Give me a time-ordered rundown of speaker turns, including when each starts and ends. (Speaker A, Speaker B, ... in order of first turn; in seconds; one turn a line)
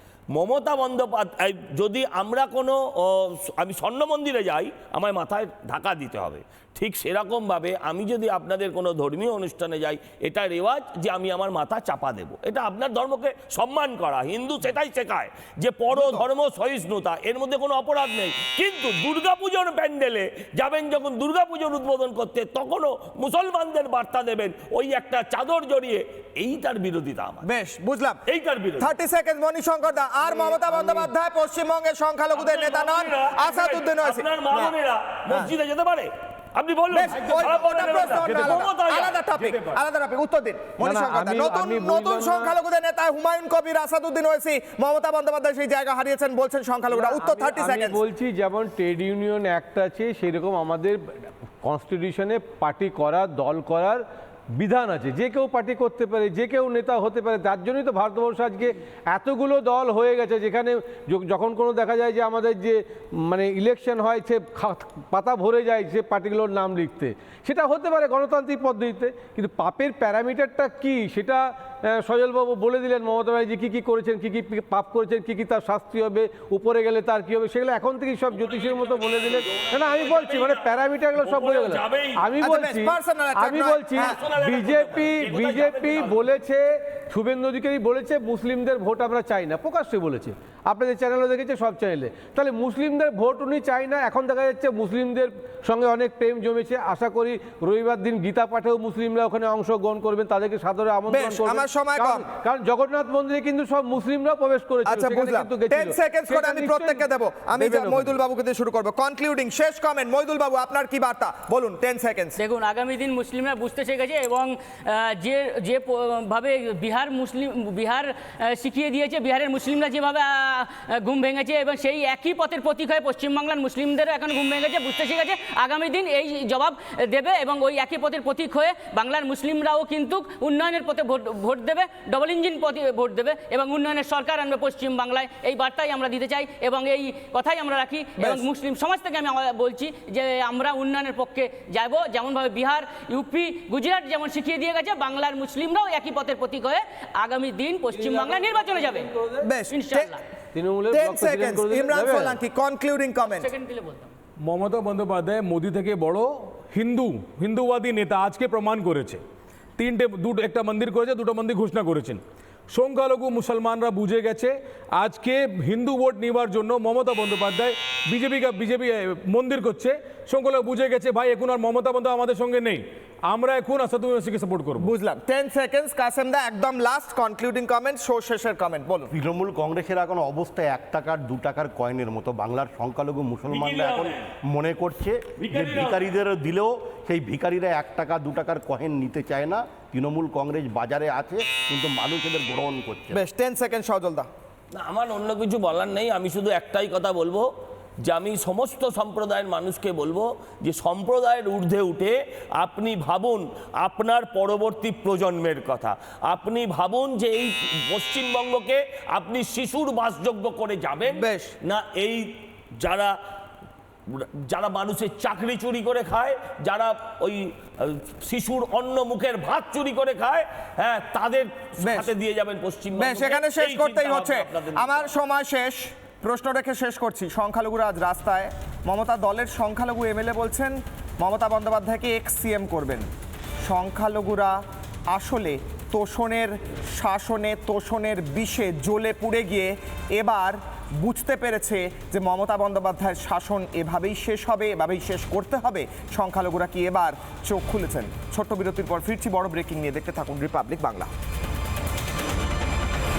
Speaker A: 0.3-27.4
Speaker B: 15.9-16.2
Speaker B: 27.4-28.2
Speaker A: 28.3-28.9
Speaker B: 28.8-34.7
Speaker A: 30.6-30.9
Speaker A: 32.3-39.2
Speaker B: 36.9-48.0
Speaker C: 37.2-38.6
Speaker C: 39.4-39.8
Speaker D: 40.8-42.5
Speaker D: 46.9-108.2
Speaker A: 78.3-82.3
Speaker B: 82.4-84.2
Speaker A: 83.9-86.3
Speaker B: 101.1-102.2
Speaker B: 104.8-112.4
Speaker E: 112.4-149.0
Speaker B: 138.2-138.4
Speaker D: 147.9-149.4
Speaker B: 149.4-150.1
Speaker E: 149.7-150.2
Speaker D: 150.5-152.4
Speaker B: 150.9-153.5
Speaker E: 153.4-154.1
Speaker C: 154.4-159.2
Speaker C: 159.8-174.9
Speaker B: 174.8-179.1
Speaker F: 179.1-193.2
Speaker A: 183.5-184.3
Speaker A: 185.4-186.0
Speaker B: 193.1-194.3
Speaker A: 194.8-197.5
Speaker A: 198.1-213.1
Speaker B: 211.1-211.5
Speaker A: 214.1-225.1
Speaker B: 221.8-222.1
Speaker B: 222.9-233.1
Speaker B: 233.7-234.6
Speaker B: 235.1-251.1